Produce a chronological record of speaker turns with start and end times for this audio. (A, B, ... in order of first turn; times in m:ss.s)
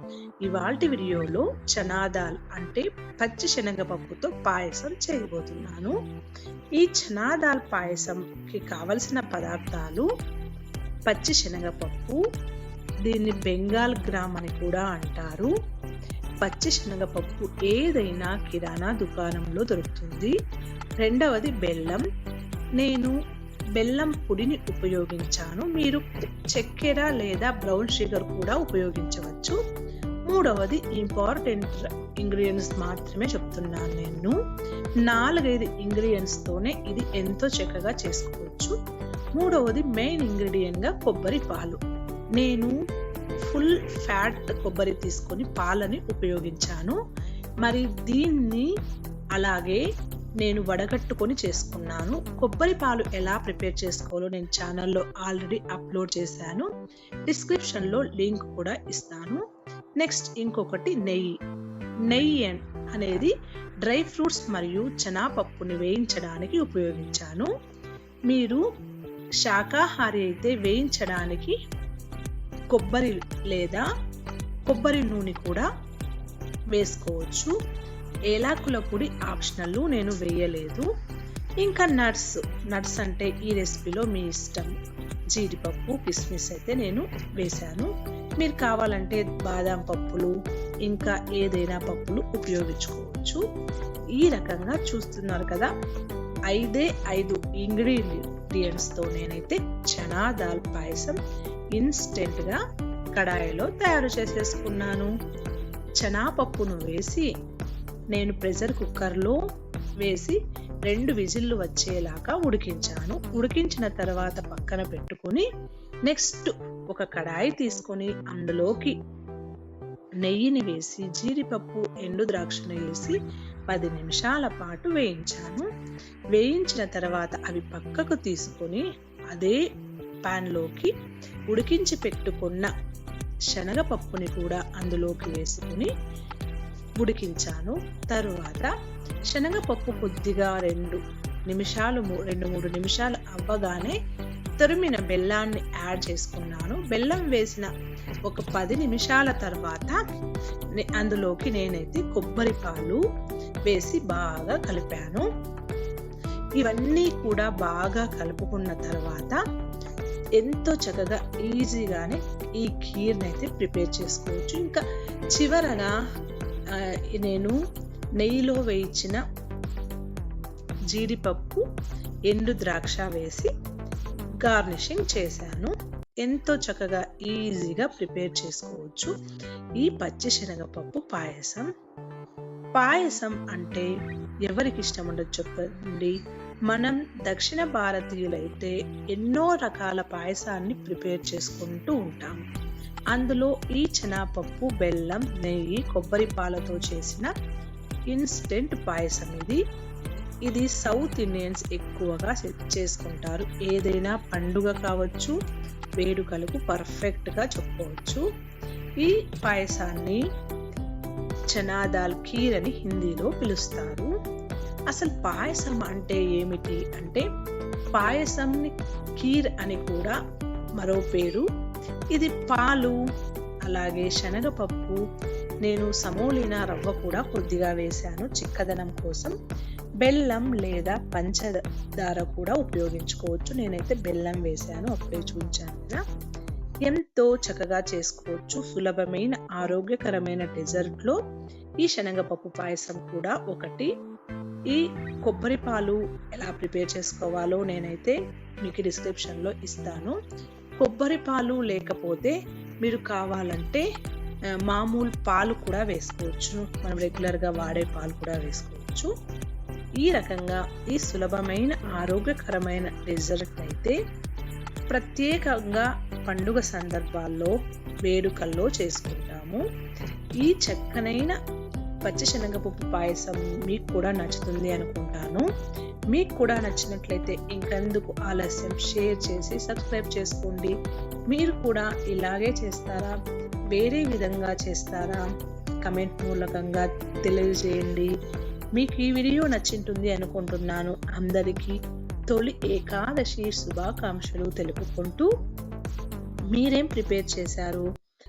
0:00.4-0:06.0 A
0:06.8-0:10.0 A
0:11.1-0:12.2 A
0:13.1-0:15.5 A
0:16.4-0:20.3 A
0:21.0-0:22.0 A
0:22.8-0:23.1 A
0:23.8-0:29.6 A
0:30.3-0:34.4 A
0:35.0-0:38.7 A
0:39.4-0:41.8 A
0:42.4-0:42.7 A
0:43.4-0:47.0 A
0:47.6-0:48.7 A
0:49.4-0:49.8 A
0:50.4-0:56.7 A
0:57.3-0:59.4 A
1:00.0-1:01.3 A
1:02.1-1:07.5 A
1:08.3-1:08.6 A
1:09.4-1:11.6 A
1:12.7-1:13.8 A
1:14.7-1:15.6 A
1:16.7-1:17.5 A
1:18.3-1:20.8 A
1:21.6-1:24.8 A
1:25.3-1:30.3 A
1:30.8-1:33.4 A
1:34.2-1:35.7 A
1:36.5-1:41.2 A
1:41.7-1:42.6 A
1:43.2-1:45.1 A
1:46.0-1:47.3 A
1:48.1-1:49.4 A
1:50.0-1:55.4 A
1:56.0-1:58.9 A
2:00.2-2:03.2 A
2:03.7-2:05.7 A
2:06.3-2:09.6 A
2:10.2-2:10.9 A
2:11.5-2:12.7 A
2:13.5-2:15.9 A
2:17.0-2:18.7 A
2:19.3-2:24.0 A
2:24.6-2:27.7 A
2:28.3-2:30.0 A
2:30.8-2:33.0 A
2:33.6-2:35.2 A
2:36.6-2:39.4 A
2:40.4-2:45.9 A
2:46.7-2:47.6 A
2:48.2-2:49.2 A
2:50.9-2:51.6 A
2:52.3-2:53.5 A
2:54.4-2:59.1 A
2:59.8-3:01.6 A
3:02.8-3:03.9 A
3:04.5-3:06.2 A
3:06.7-3:12.4 A
3:13.1-3:17.3 A
3:18.1-3:19.6 A
3:20.4-3:25.3 A
3:26.0-3:28.2 A
3:29.0-3:30.2 A
3:31.5-3:34.1 A
3:34.9-3:37.2 A
3:38.0-3:40.1 A
3:40.8-3:41.4 A
3:42.1-3:42.9 A
3:43.6-3:45.0 A
3:45.6-3:49.3 A
3:50.0-3:56.0 A
3:56.8-4:01.2 A
4:01.8-4:03.9 A
4:04.7-4:10.2 A
4:10.8-4:13.8 A
4:14.6-4:19.1 A
4:20.0-4:24.0 A
4:24.9-4:29.6 A
4:30.4-4:31.3 A
4:32.0-4:35.4 A
4:36.1-4:40.7 A
4:41.3-4:43.1 A
4:43.7-4:45.2 A
4:45.8-4:48.1 A
4:48.8-4:51.7 A
4:52.3-4:55.3 A
4:56.5-4:57.8 A